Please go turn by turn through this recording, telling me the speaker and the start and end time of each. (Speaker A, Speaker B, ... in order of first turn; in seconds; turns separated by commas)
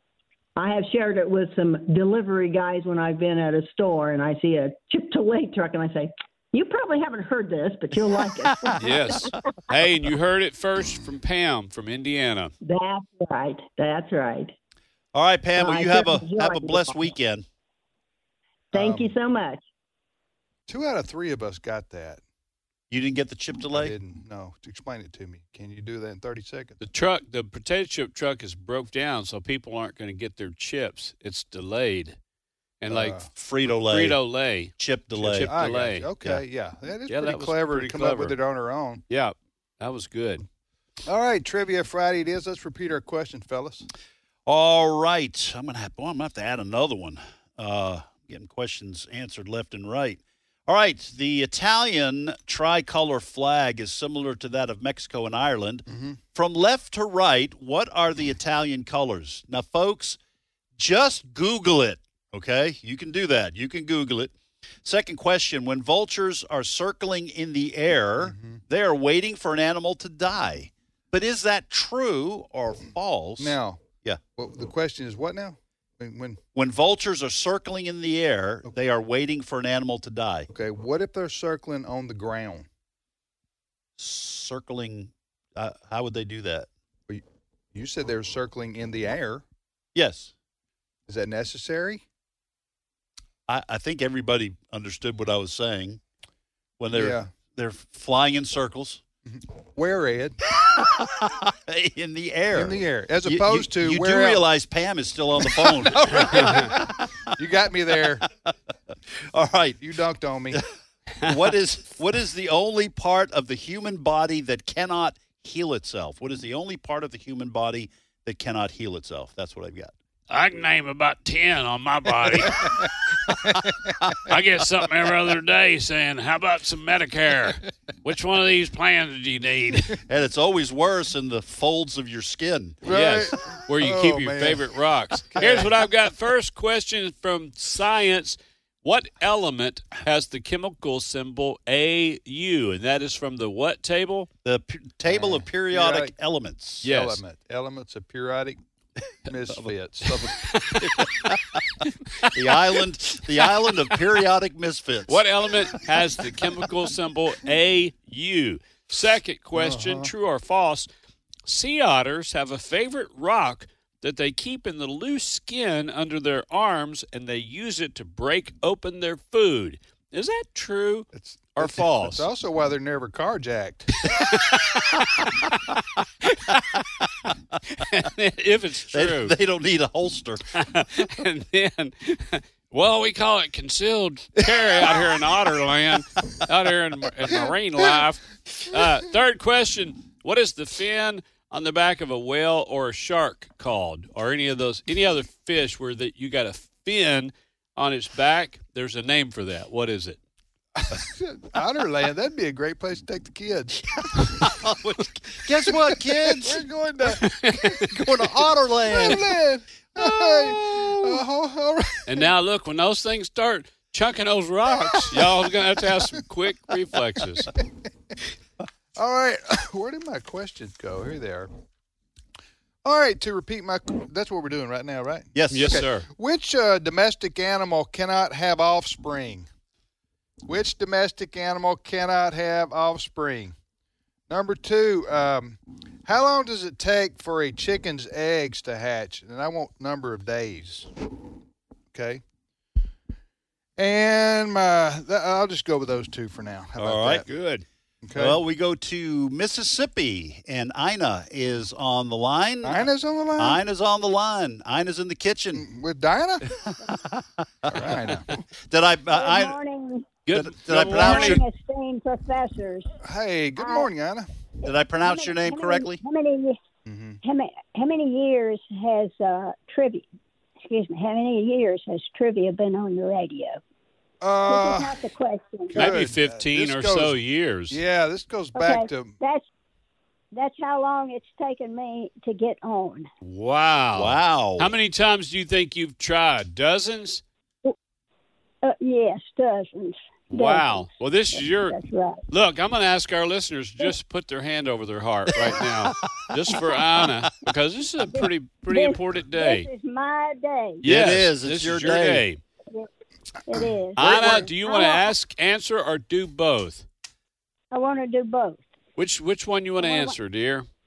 Speaker A: 0.6-9.3, Speaker B: 8.8-12.5, Speaker A: 12.6-14.5, Speaker C: 15.1-17.4, Speaker A: 15.6-17.2, Speaker D: 18.7-19.1, Speaker A: 18.7-19.6, Speaker D: 20.7-22.2, Speaker C: 22.9-23.9, Speaker D: 23.7-26.8, Speaker B: 26.8-32.2, Speaker B: 32.8-36.1, Speaker D: 32.9-33.3, Speaker C: 33.4-34.2, Speaker C: 34.8-35.6, Speaker D: 35.2-39.0, Speaker B: 37.1-38.4, Speaker B: 39.1-40.4, Speaker D: 41.0-43.9, Speaker C: 44.5-60.2, Speaker D: 55.9-56.2, Speaker C: 60.8-64.3, Speaker C: 64.8-74.2, Speaker D: 68.2-68.6, Speaker D: 73.4-73.8, Speaker D: 74.4-76.4, Speaker C: 76.5-80.5, Speaker D: 80.5-82.7, Speaker C: 84.0-86.7, Speaker D: 87.1-89.5, Speaker C: 90.0-90.3, Speaker D: 91.1-92.0, Speaker C: 93.5-96.0, Speaker C: 96.8-99.0, Speaker D: 96.9-97.3, Speaker D: 99.3-100.4, Speaker C: 100.6-107.1, Speaker D: 102.5-104.5, Speaker D: 105.5-106.8, Speaker B: 106.3-106.6, Speaker D: 107.4-108.2, Speaker C: 109.3-109.8, Speaker D: 109.8-110.6, Speaker C: 111.2-119.9, Speaker B: 120.3-122.8, Speaker B: 124.3-130.0, Speaker C: 130.1-132.8, Speaker D: 132.8-134.6, Speaker B: 132.8-144.3, Speaker D: 135.3-135.7, Speaker C: 144.4-146.8, Speaker D: 145.1-146.1, Speaker D: 146.8-148.6, Speaker B: 146.8-147.2, Speaker D: 149.3-150.3, Speaker B: 150.2-151.1, Speaker C: 151.0-151.3, Speaker C: 152.3-155.2, Speaker B: 155.1-160.9, Speaker D: 159.5-160.1, Speaker B: 161.4-172.2, Speaker D: 171.1-173.9, Speaker B: 174.1-175.3, Speaker B: 176.2-176.5, Speaker B: 177.8-179.3, Speaker C: 178.9-180.4, Speaker B: 180.5-200.2, Speaker D: 200.8-204.4, Speaker C: 204.4-206.6, Speaker D: 205.7-207.8, Speaker B: 207.1-208.1, Speaker C: 207.9-209.3, Speaker D: 208.9-212.2, Speaker C: 209.9-211.2, Speaker B: 212.1-217.5, Speaker D: 214.9-215.3, Speaker D: 218.9-221.5, Speaker D: 222.8-229.5, Speaker C: 225.3-225.9, Speaker B: 225.5-226.1, Speaker D: 230.4-233.6, Speaker D: 234.3-240.9, Speaker D: 241.9-242.2, Speaker D: 243.8-247.2, Speaker C: 246.8-247.2, Speaker B: 247.2-247.6, Speaker D: 248.0-248.4, Speaker C: 248.1-252.9, Speaker D: 252.6-253.6, Speaker C: 253.4-255.6, Speaker D: 255.5-256.4, Speaker C: 256.6-259.6, Speaker D: 257.7-258.3, Speaker E: 259.1-260.2, Speaker B: 260.3-261.4, Speaker C: 260.3-261.4, Speaker E: 260.8-262.9, Speaker D: 263.0-264.3, Speaker E: 263.6-263.9, Speaker C: 264.6-266.0, Speaker E: 265.0-266.6, Speaker D: 266.9-267.2, Speaker E: 267.2-270.1, Speaker E: 270.6-273.6, Speaker D: 274.2-274.9, Speaker E: 274.5-275.9, Speaker D: 275.7-277.2, Speaker B: 275.7-277.8, Speaker D: 277.7-279.1, Speaker E: 278.6-279.4, Speaker E: 280.3-283.1, Speaker B: 283.2-287.2, Speaker C: 283.9-284.7, Speaker E: 288.6-292.2, Speaker B: 290.3-291.8, Speaker B: 292.3-299.7, Speaker E: 298.1-300.9, Speaker B: 300.8-302.4, Speaker C: 300.9-302.2, Speaker E: 303.5-305.1, Speaker D: 303.5-304.3, Speaker B: 304.0-306.9, Speaker E: 307.7-308.6, Speaker B: 309.0-310.7, Speaker E: 309.8-310.2